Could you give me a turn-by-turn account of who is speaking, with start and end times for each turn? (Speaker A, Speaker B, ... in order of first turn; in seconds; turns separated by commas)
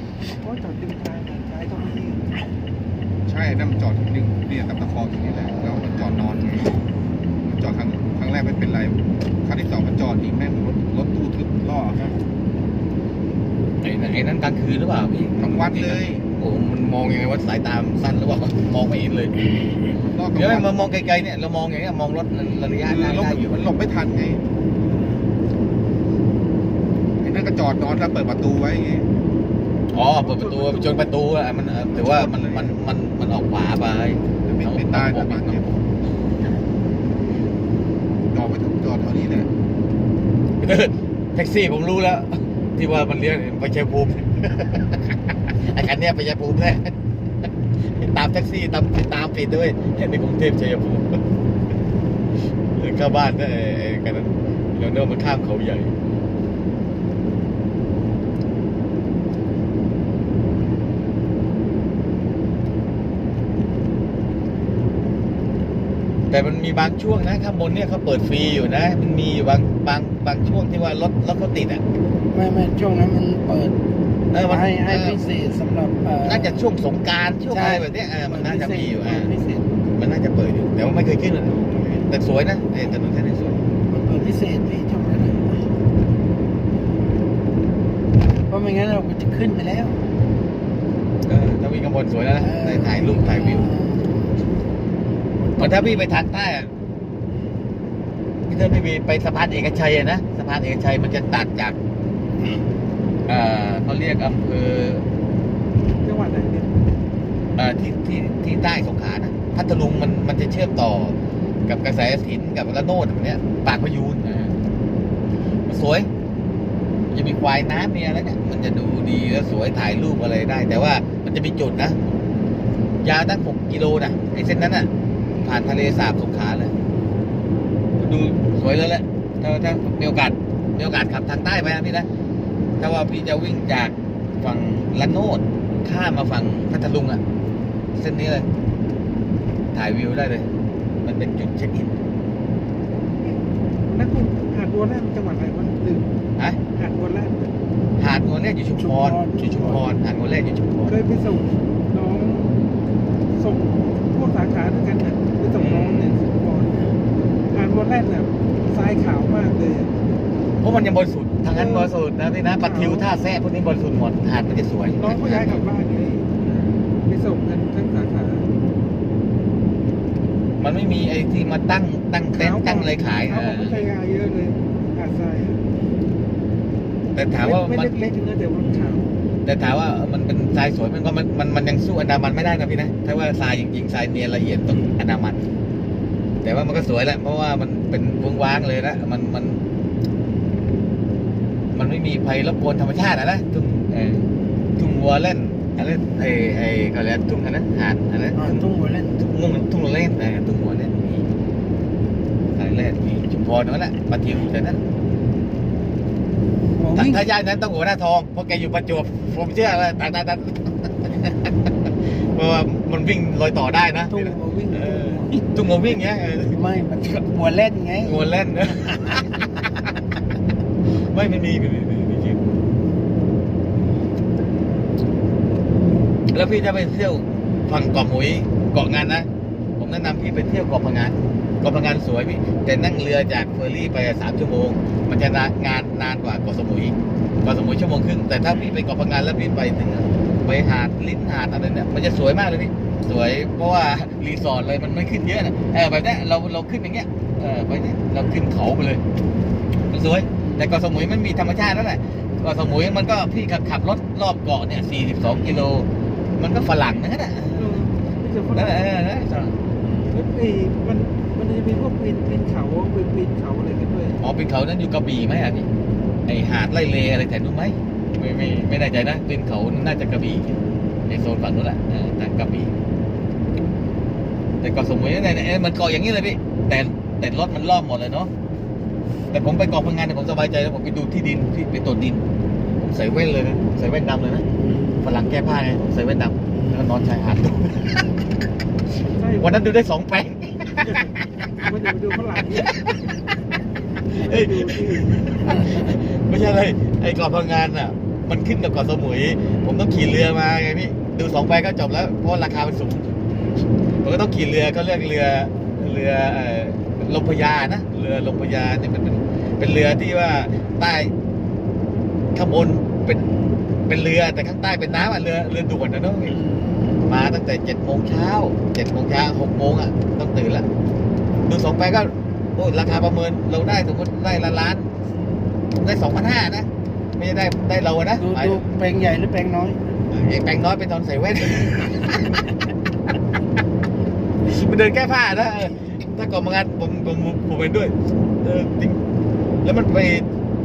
Speaker A: 0.4-2.4, Speaker B: 3.3-6.8, Speaker B: 7.4-12.2, Speaker C: 13.8-19.3, Speaker B: 15.4-16.2, Speaker B: 20.0-20.9, Speaker C: 20.3-23.6, Speaker B: 22.9-24.4, Speaker B: 27.2-29.1, Speaker C: 29.9-35.7, Speaker A: 30.2-31.1, Speaker B: 31.9-32.8, Speaker B: 34.4-35.8, Speaker B: 38.3-39.5, Speaker C: 40.6-46.9, Speaker C: 47.8-51.2, Speaker C: 52.7-55.9, Speaker C: 66.3-71.8, Speaker D: 72.3-73.8, Speaker C: 74.3-75.2, Speaker D: 74.4-76.7, Speaker C: 76.2-79.3, Speaker D: 77.5-79.7, Speaker C: 80.0-83.6, Speaker D: 83.9-85.7, Speaker D: 88.5-90.0, Speaker C: 91.3-93.7, Speaker D: 92.4-94.4, Speaker D: 95.4-96.1, Speaker C: 95.6-96.7, Speaker C: 98.5-101.8, Speaker C: 103.3-105.0, Speaker A: 106.0-106.7, Speaker C: 107.6-114.5, Speaker C: 115.7-116.1, Speaker C: 117.1-122.0, Speaker C: 123.0-124.9, Speaker C: 125.4-126.7, Speaker C: 128.0-132.1, Speaker C: 132.8-137.2, Speaker C: 137.9-138.5, Speaker C: 139.7-140.5, Speaker C: 141.0-142.0, Speaker A: 143.9-146.1, Speaker A: 146.7-147.6, Speaker C: 148.0-151.0, Speaker D: 148.8-149.8, Speaker A: 150.9-152.6, Speaker A: 153.4-156.8, Speaker C: 155.6-156.2, Speaker A: 157.5-159.9, Speaker C: 160.6-165.7, Speaker A: 161.5-161.9, Speaker A: 162.5-163.1, Speaker A: 165.0-168.5, Speaker C: 170.6-173.8, Speaker A: 172.3-175.6, Speaker C: 177.2-178.1, Speaker A: 177.4-179.1, Speaker C: 179.4-185.4, Speaker C: 186.4-189.6, Speaker C: 191.7-198.6, Speaker D: 198.3-199.2, Speaker C: 199.2-201.3, Speaker C: 202.5-204.8, Speaker D: 206.8-207.2, Speaker C: 206.9-211.7, Speaker C: 212.3-216.6, Speaker D: 214.1-215.6, Speaker D: 216.5-218.2, Speaker C: 218.0-219.9, Speaker C: 220.9-222.4, Speaker C: 226.3-249.0, Speaker C: 249.9-257.8, Speaker A: 257.6-259.0, Speaker C: 258.5-259.6, Speaker A: 260.1-264.2, Speaker C: 264.2-265.7, Speaker C: 266.3-272.7, Speaker C: 274.6-278.3, Speaker C: 279.3-282.2, Speaker C: 282.8-284.4, Speaker D: 284.5-285.1, Speaker C: 285.0-288.1, Speaker D: 286.5-287.0, Speaker A: 289.1-289.7, Speaker C: 289.4-291.6, Speaker A: 290.8-292.9, Speaker C: 292.6-293.1, Speaker C: 294.0-303.1, Speaker A: 294.1-295.2, Speaker C: 304.0-311.1, Speaker C: 312.3-313.2, Speaker C: 313.9-316.4, Speaker D: 316.2-317.1, Speaker C: 317.1-320.7, Speaker C: 321.4-324.9, Speaker C: 325.7-328.6, Speaker D: 328.2-329.8, Speaker C: 330.1-332.4, Speaker C: 334.4-339.0, Speaker C: 339.6-340.3